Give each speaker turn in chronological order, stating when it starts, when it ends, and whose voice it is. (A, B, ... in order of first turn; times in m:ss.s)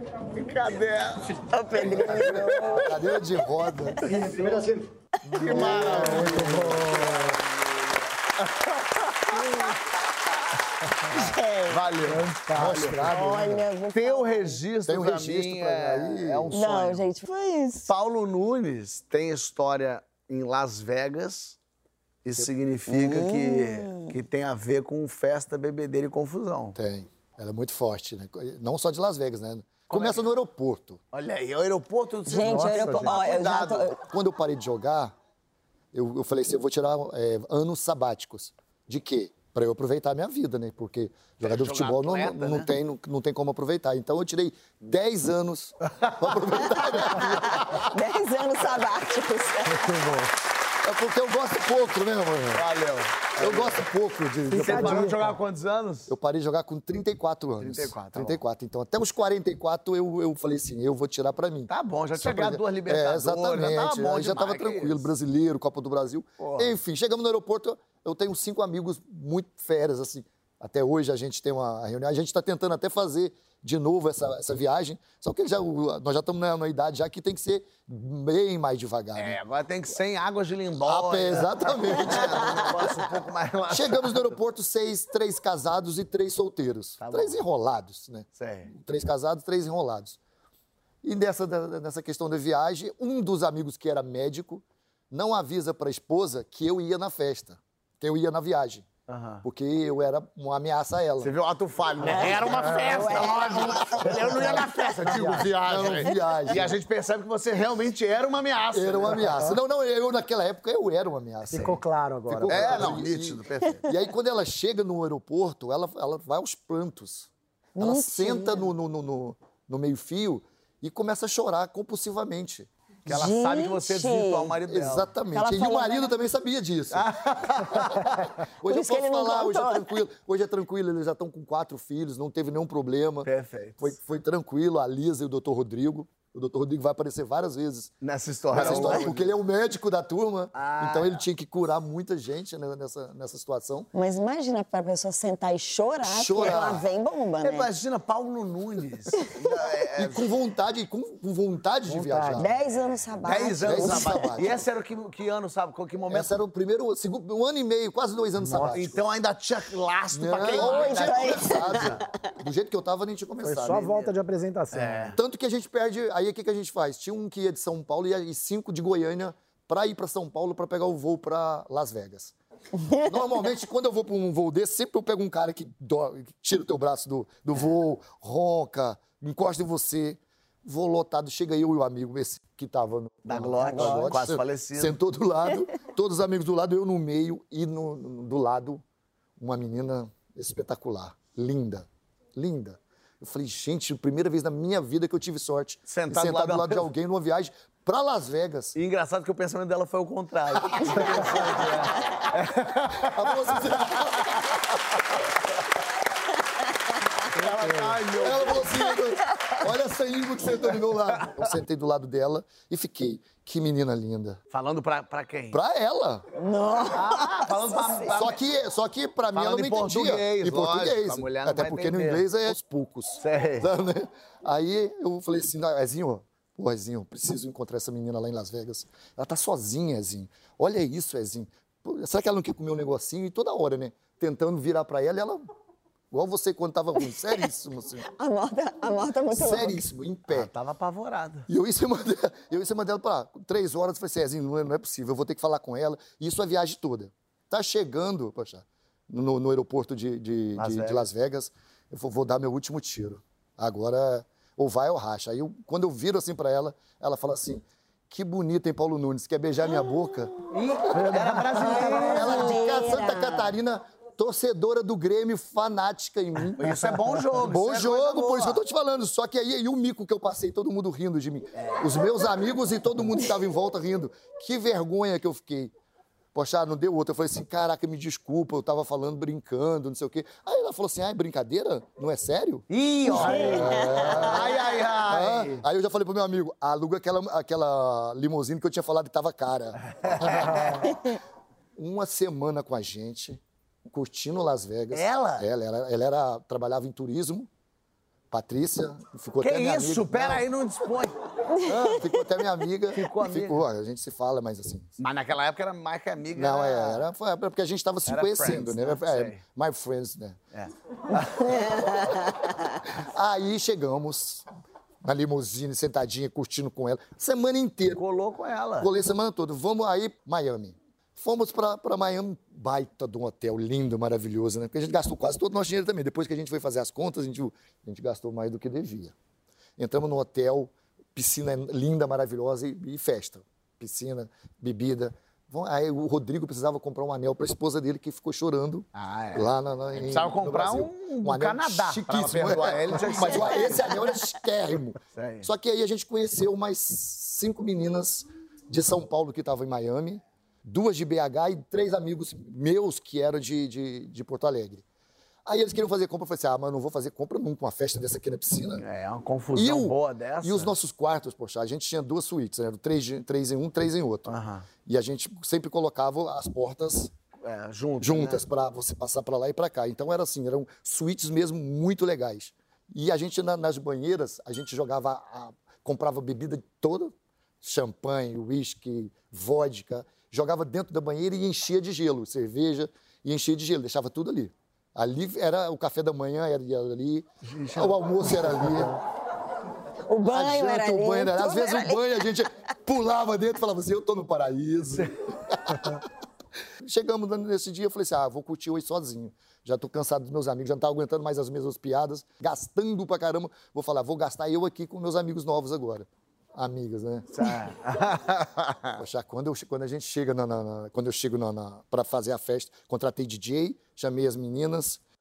0:00.3-0:01.4 A
0:01.5-0:03.2 B
0:01.9-0:07.0 C
0:02.0-0:02.4 A
0:04.0-0:04.6 D
0:04.1-0:04.6 A
0:05.4-0:07.4 A
0:05.4-0:07.4 D
0:08.4-0:09.8 A
0:11.1-0:11.8 B
0:11.1-0:13.1 A
0:12.0-0:13.6 D
0:12.5-0:13.6 C
0:13.1-0:14.6 B
0:13.9-0:17.1 A
0:14.8-0:16.5 C
0:16.5-0:17.9 B
0:17.9-0:21.6 A
0:22.2-0:26.8 A
0:22.9-0:24.1 B
0:26.8-0:31.0 C
0:29.9-0:30.3 A
0:31.1-0:33.9 A
0:32.3-0:34.0 B
0:32.4-0:33.2 D
0:34.0-0:35.1 C
0:35.9-0:47.6 C
0:41.4-0:42.7 A
0:47.1-0:49.9 B
0:49.7-0:50.3 D
0:50.8-0:52.6 C
0:52.5-0:53.8 A
0:53.4-0:55.1 C
0:54.5-0:55.3 D
0:54.5-0:56.1 A
0:56.1-1:19.4 C
0:57.6-0:58.3 A
1:01.7-1:05.0 A
1:06.4-1:06.7 A
1:19.2-1:24.4 A
1:20.8-1:23.1 C
1:23.7-1:30.2 C
1:27.0-1:27.4 A
1:28.4-1:28.7 A
1:31.0-1:38.9 C
1:39.1-1:39.4 A
1:39.4-1:41.3 C
1:41.2-1:49.4 A
1:42.0-1:42.5 C
1:42.0-1:44.9 B
1:42.2-1:43.7 D
1:44.3-1:45.5 D
1:45.1-1:46.8 C
1:48.7-2:02.7 C
1:49.3-1:49.6 D
1:51.5-1:53.0 D
1:52.5-1:53.9 A
1:57.8-1:58.6 B
2:03.0-2:05.1 A
2:03.1-2:04.6 B
2:04.7-2:07.0 C
2:05.3-2:06.1 B
2:06.9-2:08.2 A
2:07.7-2:13.3 C
2:08.6-2:10.0 B
2:13.2-2:13.9 A
2:13.8-2:17.9 C
2:18.0-2:19.3 A
2:18.5-2:23.9 C
2:18.7-2:19.0 B
2:20.5-2:21.2 A
2:23.9-2:27.7 B
2:26.0-2:26.8 C
2:27.4-2:30.2 A
2:30.0-2:32.5 C
2:31.9-2:32.4 D
2:32.4-2:34.3 B
2:33.2-2:36.3 A
2:33.6-2:34.6 C
2:36.1-2:39.0 C
2:38.4-2:38.8 D
2:38.7-2:42.0 A
2:40.1-2:44.1 C
2:40.4-2:42.1 B
2:43.4-2:45.2 D
2:44.7-2:45.2 A
2:45.2-2:52.3 C
2:52.8-2:53.2 B
2:53.0-3:08.8 C
3:03.2-3:05.0 A
3:09.4-3:18.8 C
3:15.9-3:16.9 A
3:18.8-3:24.0 A
3:20.6-3:21.7 C
3:23.0-3:24.4 C
3:27.3-3:28.8 A
3:27.5-3:28.0 D
3:28.2-3:34.4 C
3:31.2-3:31.5 A
3:34.5-3:35.6 A
3:35.5-3:36.2 C
3:36.3-3:38.1 B
3:36.9-3:38.4 A
3:38.1-3:55.4 C
3:39.3-3:42.6 A
3:43.2-3:43.7 A
3:56.1-3:58.0 C
3:58.0-3:59.8 B
3:59.3-4:00.5 C
4:00.3-4:01.5 A
4:01.5-4:20.3 C
4:10.6-4:11.1 A
4:20.5-4:22.6 A
4:20.9-4:35.7 C
4:20.9-4:21.4 D
4:21.6-4:23.5 B
4:26.6-4:28.6 A
4:31.6-4:31.9 A
4:36.3-4:51.0 C
4:42.7-4:45.6 A
4:43.0-4:44.4 B
4:43.2-4:43.8 D
4:49.9-4:50.9 A
4:51.8-4:57.5 C
4:54.9-4:55.5 A
4:58.3-5:00.4 C
4:59.4-5:01.1 A
5:01.5-5:02.0 B
5:01.6-5:04.9 C
5:02.9-5:03.6 A
5:05.0-5:07.1 A
5:06.3-5:10.4 C
5:08.1-5:09.4 A
5:10.5-5:11.8 A
5:11.2-5:12.5 B
5:12.8-5:14.5 C
5:15.0-5:18.0 C
5:18.0-5:18.9 A
5:18.8-5:29.1 C
5:29.8-5:54.8 C
5:39.0-5:43.9 A
5:45.1-5:45.5 A
5:55.5-5:58.8 C
5:58.8-6:00.7 A
5:59.5-6:04.3 C
6:04.3-6:04.7 A
6:04.8-6:07.1 C
6:07.4-6:08.4 A
6:08.0-6:29.0 C
6:27.4-6:28.7 A
6:30.1-6:32.2 B
6:30.2-6:36.0 C
6:36.8-6:47.3 C
6:47.3-6:49.0 A
6:49.0-6:55.0 C